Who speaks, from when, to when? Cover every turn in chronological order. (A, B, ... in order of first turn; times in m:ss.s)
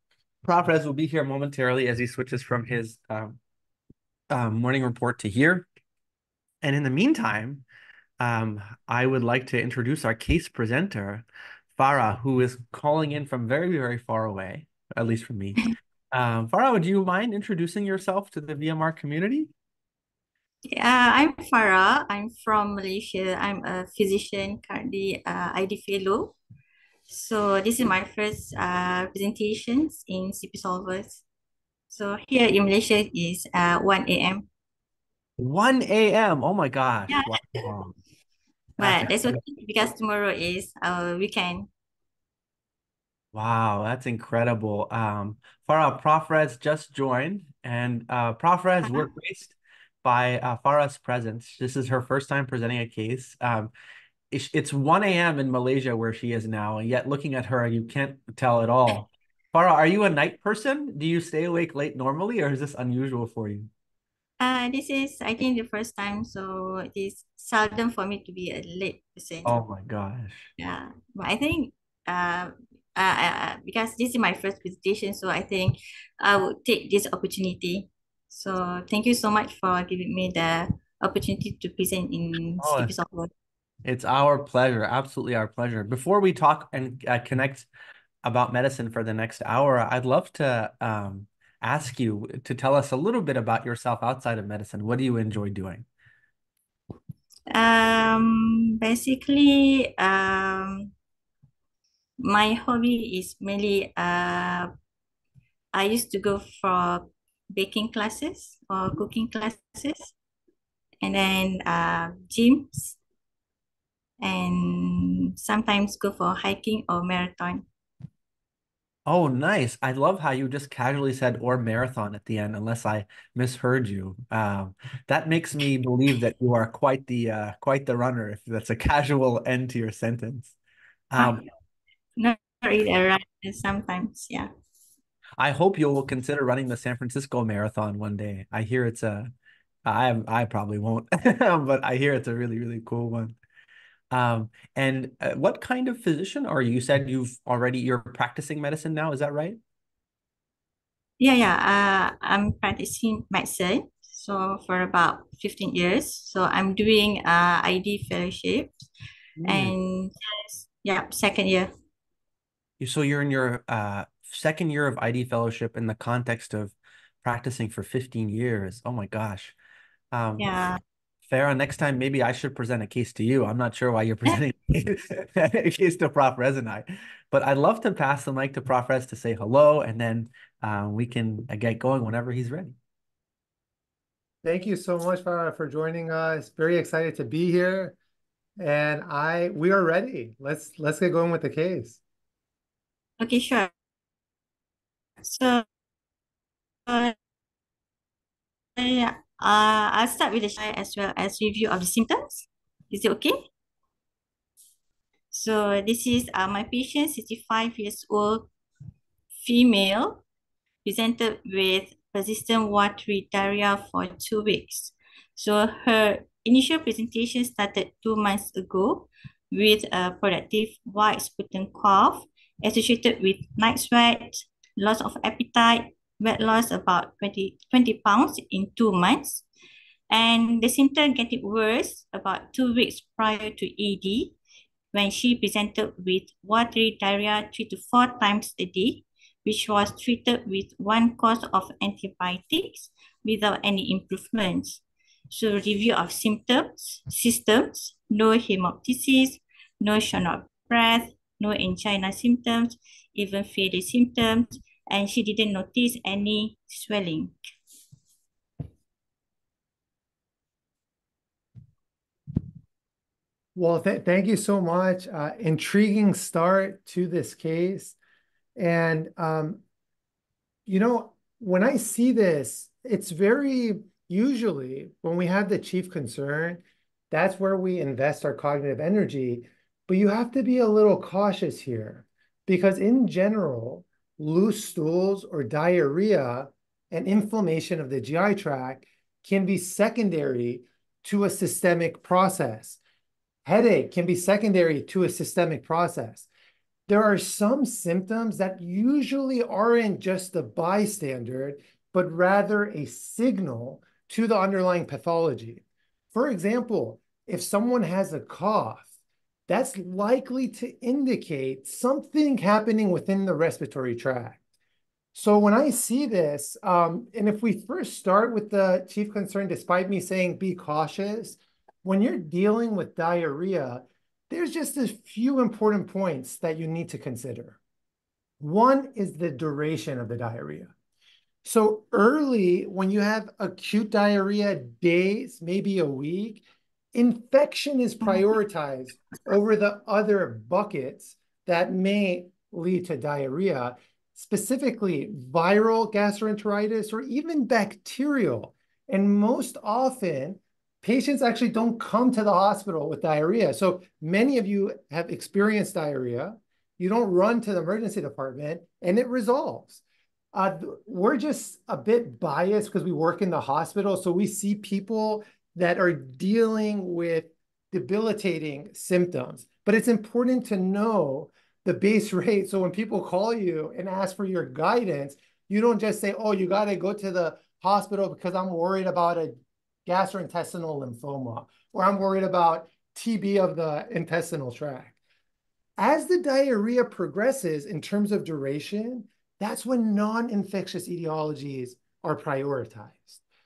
0:00.4-0:03.4 A
0:04.3-0:05.7 A
0:06.6-0:07.6 A
0:08.2-0:11.2 A
0:11.8-0:19.5 A
0:20.7-0:26.4 B
0:27.1-0:31.2 B
0:31.9-0:34.5 B
0:35.4-0:38.0 A
0:37.1-0:37.5 B
0:38.8-0:41.7 B
0:38.8-0:39.4 A
0:43.3-0:53.7 A
0:54.3-1:03.7 A
1:04.4-1:09.6 B
1:09.4-1:10.5 A
1:10.6-1:23.3 B
1:22.6-1:22.9 A
1:23.8-1:27.7 A
1:28.2-1:35.9 A
1:37.5-1:40.9 B
1:42.2-1:44.7 B
1:45.7-1:50.2 B
1:51.0-1:53.0 B
1:54.2-1:57.6 B
1:59.1-2:10.6 A
2:11.1-2:11.4 A
2:11.2-2:11.5 B
2:12.2-2:14.5 B
2:15.4-2:19.3 A
2:19.8-2:23.4 A
2:24.1-2:29.6 A
2:31.2-2:38.9 B
2:39.4-2:39.8 A
2:39.4-2:41.7 B
2:42.8-2:49.6 A
2:50.1-2:50.5 A
2:50.4-2:50.8 B
2:51.3-3:02.8 A
3:04.4-3:08.0 C
3:08.6-3:12.0 C
3:13.2-3:13.7 B
3:15.2-3:15.6 B
3:16.9-3:17.2 B
3:18.8-3:23.4 B
3:25.3-3:28.5 B
3:29.4-3:30.2 B
3:30.8-3:49.4 B
3:50.1-3:54.4 B
3:54.9-4:17.4 B
4:23.6-4:28.0 C
4:28.6-4:29.6 C
4:30.7-4:52.8 C
4:53.5-4:56.3 C
4:56.9-5:08.9 C
5:09.5-5:14.4 C
5:15.2-5:27.6 C
5:28.4-5:30.7 C
5:31.4-5:36.4 C
5:36.9-5:59.8 C
6:00.3-6:25.0 C
6:25.8-6:33.2 C